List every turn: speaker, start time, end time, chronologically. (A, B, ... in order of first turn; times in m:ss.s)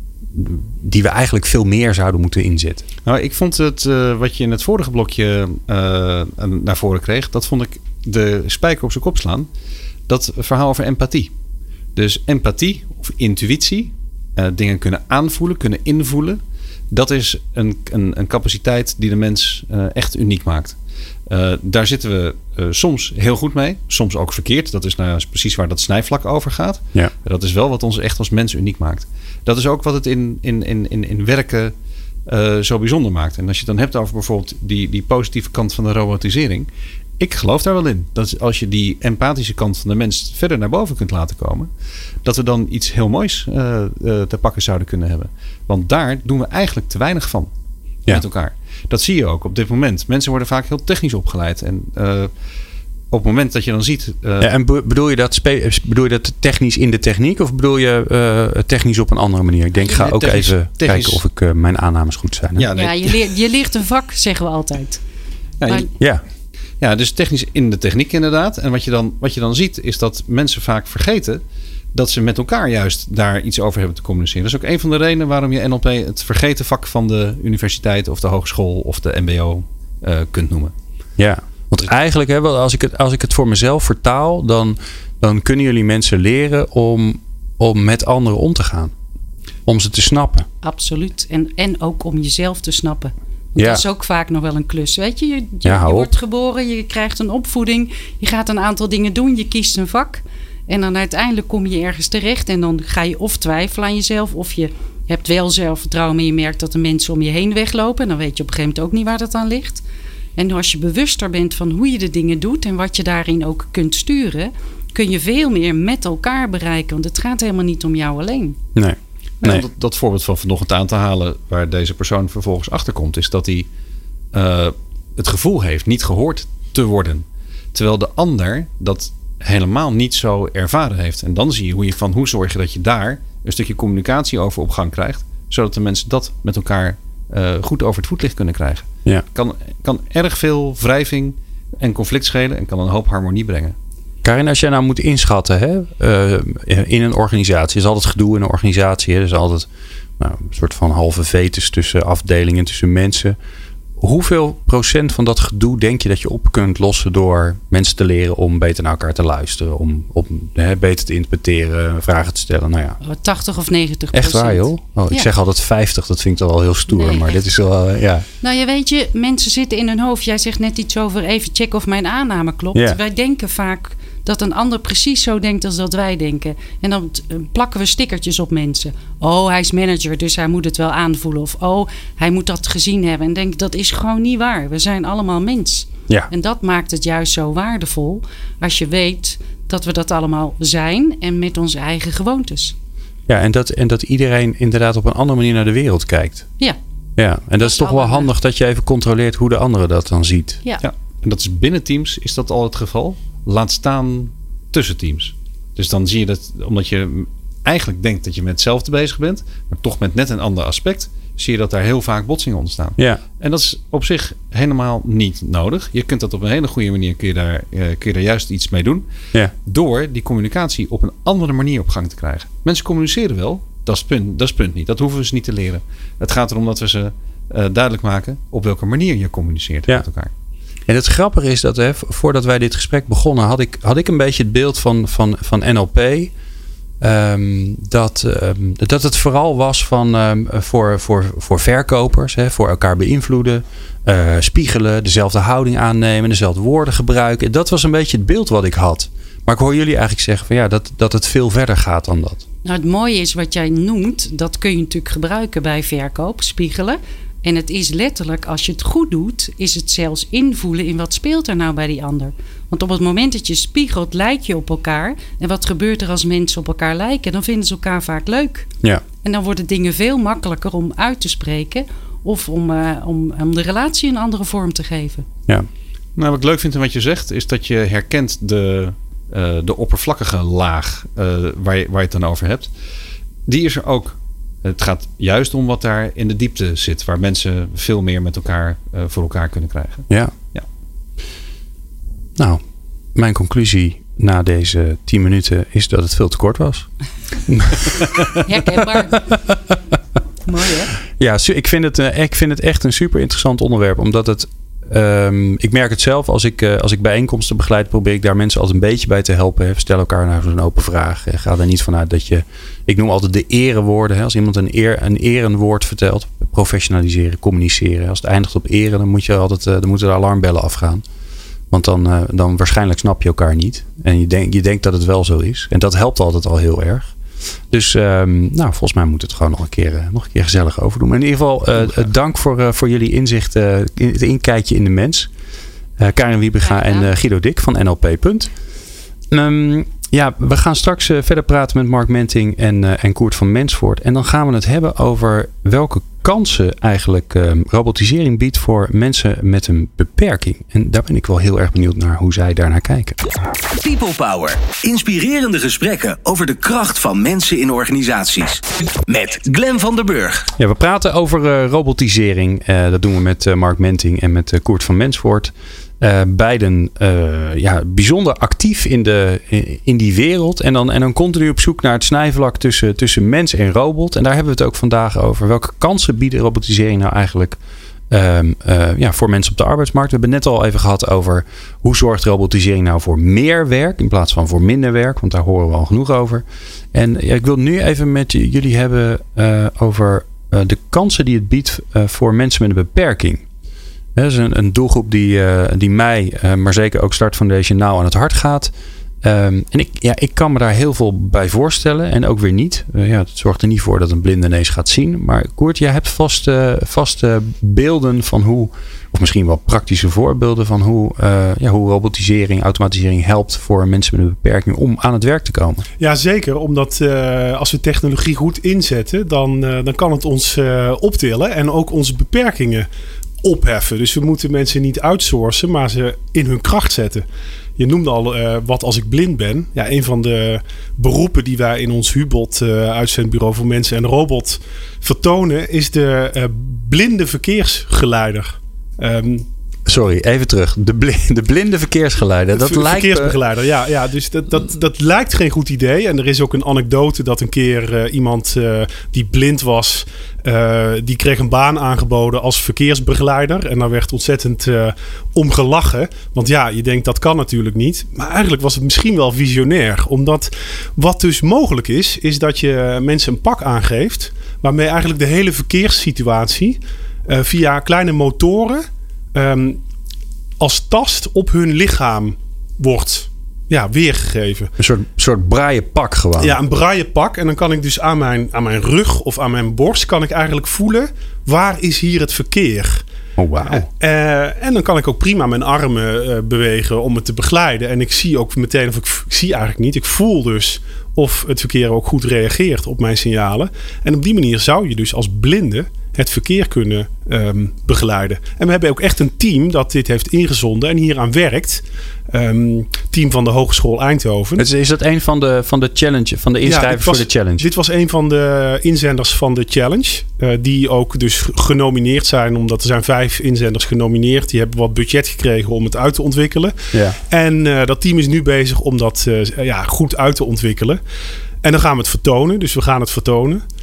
0:00.3-0:02.8 A
0:03.0-0:09.5 B
0:10.1-0:11.3 B
0:12.0-0:31.7 B
0:32.3-0:41.7 B
0:42.2-0:47.5 B
0:48.1-0:52.3 B
0:53.1-0:54.5 B
0:54.4-1:02.7 A
1:00.0-1:01.2 B
1:02.6-1:03.1 B
1:02.7-1:05.0 C
1:05.6-1:05.9 B
1:06.8-1:11.4 B
1:11.9-1:20.7 B
1:21.2-1:28.9 A
1:29.7-1:30.5 A
1:30.6-1:49.8 C
1:33.6-1:33.8 A
1:35.6-1:36.1 A
1:50.4-1:58.6 C
1:58.8-1:59.6 A
1:59.4-2:03.7 B
2:04.3-2:23.8 B
2:24.2-2:29.7 A
2:30.2-2:33.4 A
2:34.0-2:43.0 A
2:43.0-2:45.3 C
2:44.1-2:48.3 A
2:46.9-2:47.4 C
2:48.4-3:12.8 C
3:13.3-3:16.5 A
3:17.2-3:20.6 A
3:17.6-3:18.3 C
3:20.8-3:39.1 B
3:33.0-3:33.2 A
3:39.6-3:50.3 B
3:50.9-3:56.3 A
3:57.0-4:12.4 A
4:12.6-4:28.7 C
4:29.2-4:35.3 C
4:36.2-4:42.7 B
4:43.5-4:50.7 B
4:53.2-4:56.9 A
4:57.5-4:58.4 A
4:58.4-4:59.4 C
5:00.5-5:00.9 C
5:01.2-5:21.0 A
5:21.7-5:27.1 A
5:27.7-5:35.3 A
5:36.0-5:38.5 A
5:36.6-5:37.1 C
5:39.3-5:53.2 A
5:53.7-6:00.5 D
6:00.6-6:17.6 A
6:18.1-6:33.4 A
6:34.2-6:38.7 A
6:39.2-6:55.9 A
6:56.0-7:02.9 E
7:03.4-7:07.2 E
7:07.8-7:19.5 E
7:19.9-7:23.4 A
7:22.6-7:49.8 E
7:50.6-7:54.7 E
7:54.8-7:56.6 A
7:56.4-8:03.0 E
8:03.4-8:03.9 A
8:03.6-8:24.7 E
8:24.6-8:27.7 A
8:26.6-8:36.7 E
8:36.9-8:37.2 A
8:37.3-8:41.0 E
8:41.6-8:43.6 E